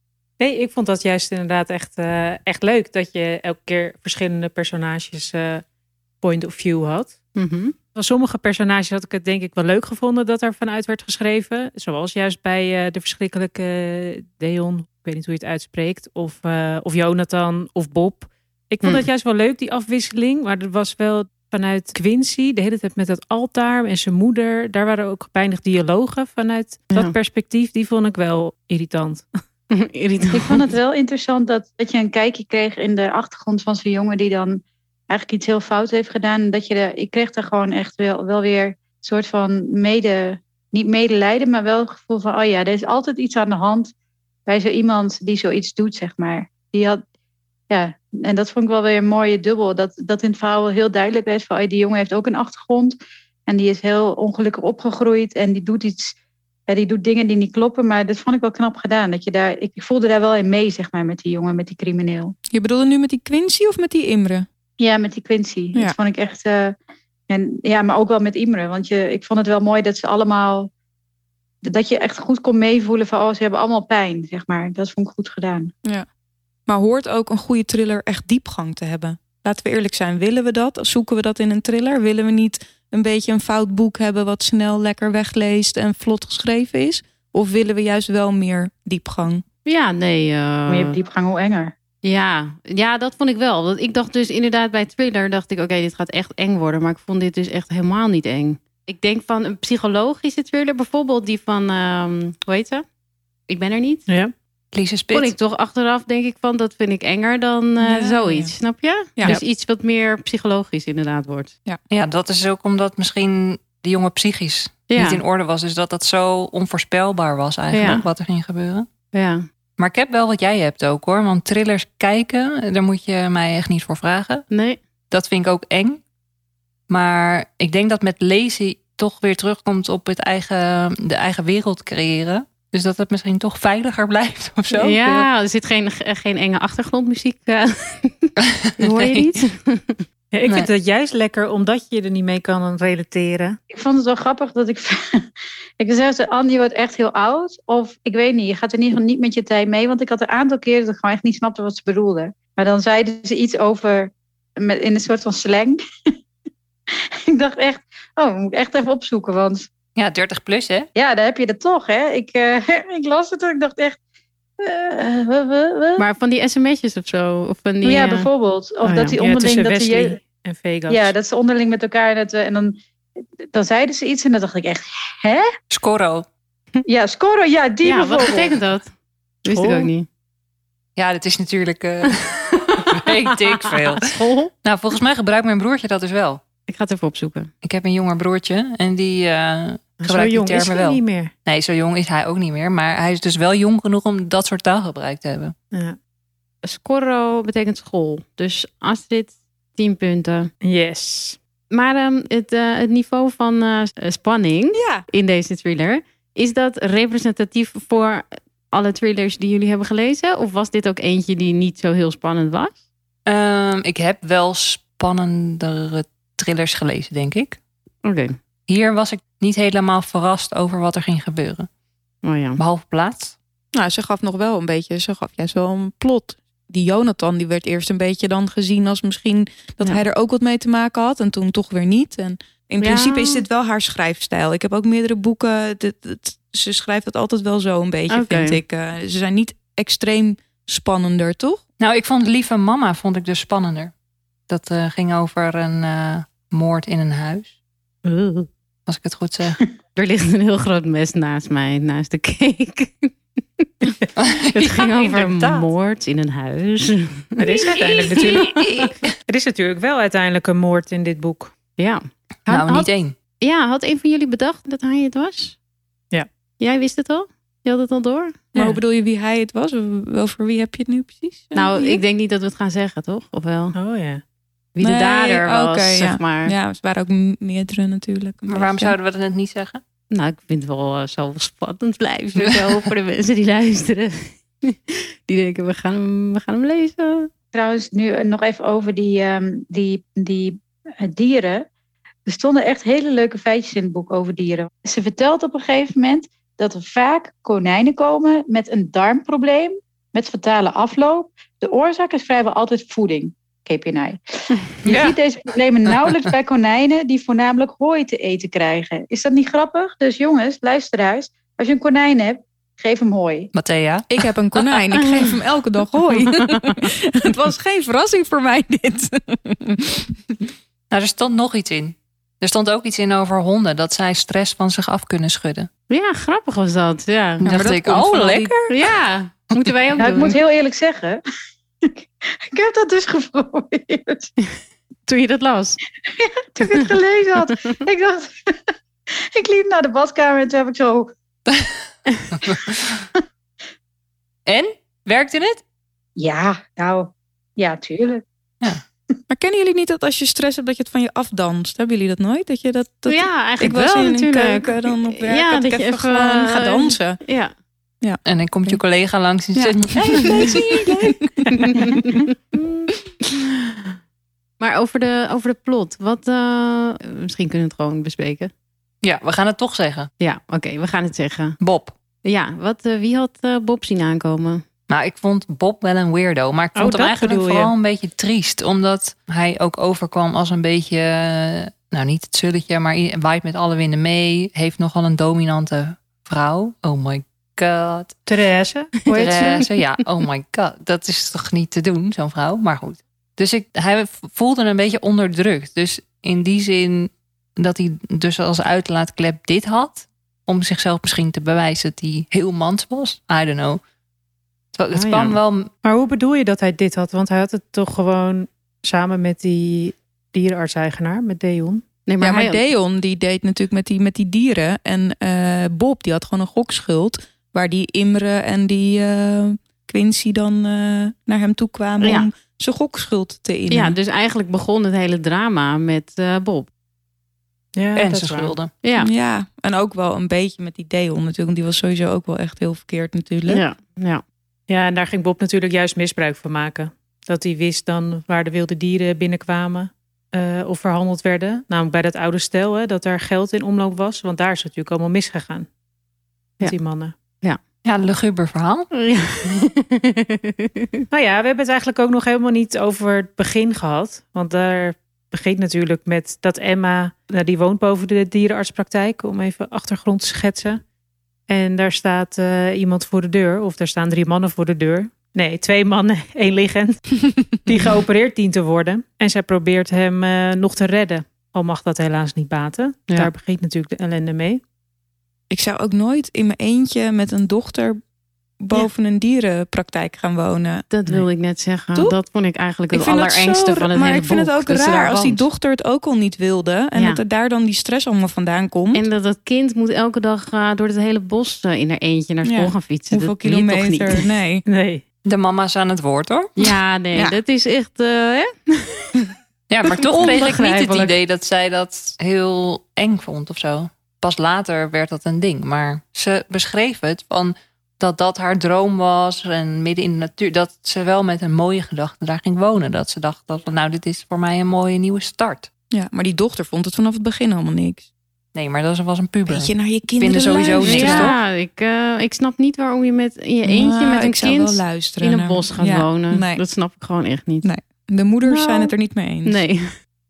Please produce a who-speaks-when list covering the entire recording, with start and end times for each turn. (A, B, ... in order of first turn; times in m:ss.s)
0:00.4-0:05.6 A
0:06.2-0:07.2 A
0:07.4-0:07.7 B
0:07.9-0:29.2 A
0:29.7-0:30.7 B
0:30.3-0:43.9 C
0:44.5-0:47.0 C
0:47.7-0:56.2 C
0:56.7-1:02.3 C
1:02.5-1:04.4 D
1:04.8-1:06.8 C
1:07.3-1:10.7 C
1:11.6-1:15.7 C
1:16.7-1:29.4 D
1:29.6-1:31.0 B
1:30.7-1:31.7 C
1:32.0-1:42.8 B
1:43.5-1:44.1 B
1:44.1-1:44.3 A
1:44.7-1:45.3 E
1:45.1-1:51.5 B
1:47.8-1:48.5 D
1:49.1-1:49.4 D
1:51.9-1:58.9 E
1:54.9-1:55.2 B
1:57.7-1:58.0 B
1:59.1-1:59.4 B
1:59.8-2:04.4 E
2:04.5-2:04.8 B
2:05.1-2:06.0 E
2:06.9-2:15.3 E
2:14.7-2:20.0 B
2:18.4-2:19.4 E
2:20.3-2:23.6 A
2:23.7-2:25.2 C
2:25.8-2:35.8 C
2:36.9-2:39.7 C
2:40.0-2:40.9 E
2:40.9-2:44.0 C
2:44.6-2:46.0 C
2:46.0-2:48.3 B
2:47.8-2:50.2 C
2:48.8-2:49.1 B
2:48.9-2:51.1 A
2:50.9-2:52.8 C
2:53.4-2:55.5 C
2:55.7-2:56.2 E
2:56.8-2:58.5 C
2:57.8-2:58.9 B
2:59.4-3:00.1 B
2:59.4-2:59.9 A
3:01.0-3:06.4 E
3:02.1-3:04.5 B
3:06.7-3:07.5 B
3:07.6-3:15.5 E
3:10.0-3:11.3 A
3:15.7-3:16.0 A
3:16.6-3:20.5 B
3:20.6-3:21.4 A
3:21.7-3:32.8 B
3:24.7-3:25.0 D
3:33.2-3:37.6 E
3:38.0-3:38.4 B
3:38.7-3:41.7 E
3:42.2-3:42.6 B
3:42.6-3:43.4 E
3:43.7-4:01.6 D
3:52.8-3:53.4 B
3:58.1-3:58.6 B
4:01.8-4:03.9 E
4:04.5-4:07.5 E
4:08.0-4:08.4 A
4:08.9-4:09.6 E
4:09.9-4:13.9 B
4:14.2-4:15.7 E
4:14.5-4:18.5 B
4:17.4-4:21.5 A
4:18.1-4:19.1 E
4:21.8-4:22.9 B
4:22.5-4:23.1 E
4:23.4-4:25.6 B
4:26.6-4:28.5 B
4:28.5-4:32.0 D
4:31.5-4:33.8 B
4:33.7-4:34.2 A
4:34.7-4:36.5 B
4:34.8-4:38.9 D
4:38.5-4:39.8 E
4:40.1-4:47.3 B
4:47.5-4:51.7 C
4:52.2-5:13.5 C
5:04.8-5:05.2 E
5:13.5-5:14.1 E
5:14.1-5:20.4 D
5:15.0-5:15.3 B
5:16.3-5:16.8 B
5:20.9-5:25.7 E
5:25.9-5:27.4 B
5:27.4-5:28.7 E
5:27.4-5:28.5 D
5:28.7-5:30.4 B
5:30.0-5:31.2 C
5:31.8-5:34.3 C
5:35.0-5:35.8 B
5:36.0-5:38.5 C
5:39.3-5:41.1 C
5:41.5-5:41.8 E
5:42.3-5:43.0 E
5:44.4-5:45.6 E
5:46.2-5:48.2 C
5:49.3-5:57.2 D
5:53.1-5:57.5 B
5:58.0-5:58.7 D
5:58.2-6:00.6 E
5:59.5-6:02.0 D
6:01.5-6:03.7 B
6:04.6-6:08.5 B
6:09.0-6:10.1 E
6:10.2-6:11.6 B
6:11.6-6:11.9 E
6:12.2-6:14.6 B
6:14.9-6:28.2 E
6:16.7-6:17.7 A
6:28.3-6:29.5 A
6:29.0-6:29.7 B
6:29.0-6:43.8 E
6:44.7-6:45.7 E
6:44.9-6:45.4 B
6:45.8-6:51.8 A
6:52.0-6:52.6 B
6:52.2-7:04.0 D
7:02.0-7:02.3 B
7:03.7-7:06.7 B
7:07.8-7:08.5 A
7:07.9-7:08.7 E
7:08.8-7:09.1 B
7:09.0-7:13.6 D
7:13.5-7:14.2 B
7:14.7-7:25.7 A
7:26.6-7:27.1 A
7:27.8-7:28.9 E
7:28.9-7:31.0 B
7:31.1-7:40.8 A
7:41.5-7:54.6 A
7:55.5-7:58.0 D
7:58.6-8:00.8 D
8:00.9-8:05.4 B
8:02.9-8:09.0 D
8:06.9-8:07.2 B
8:08.9-8:14.2 B
8:12.4-8:14.6 D
8:14.6-8:15.0 A
8:15.2-8:16.5 E
8:16.6-8:19.2 B
8:19.7-8:35.7 E
8:20.1-8:21.2 B
8:35.9-8:38.1 D
8:38.5-8:41.4 E
8:39.5-8:41.4 D
8:40.8-8:47.7 B
8:43.6-8:46.6 D
8:47.6-8:49.6 D
8:48.4-8:48.9 B
8:49.4-8:49.9 B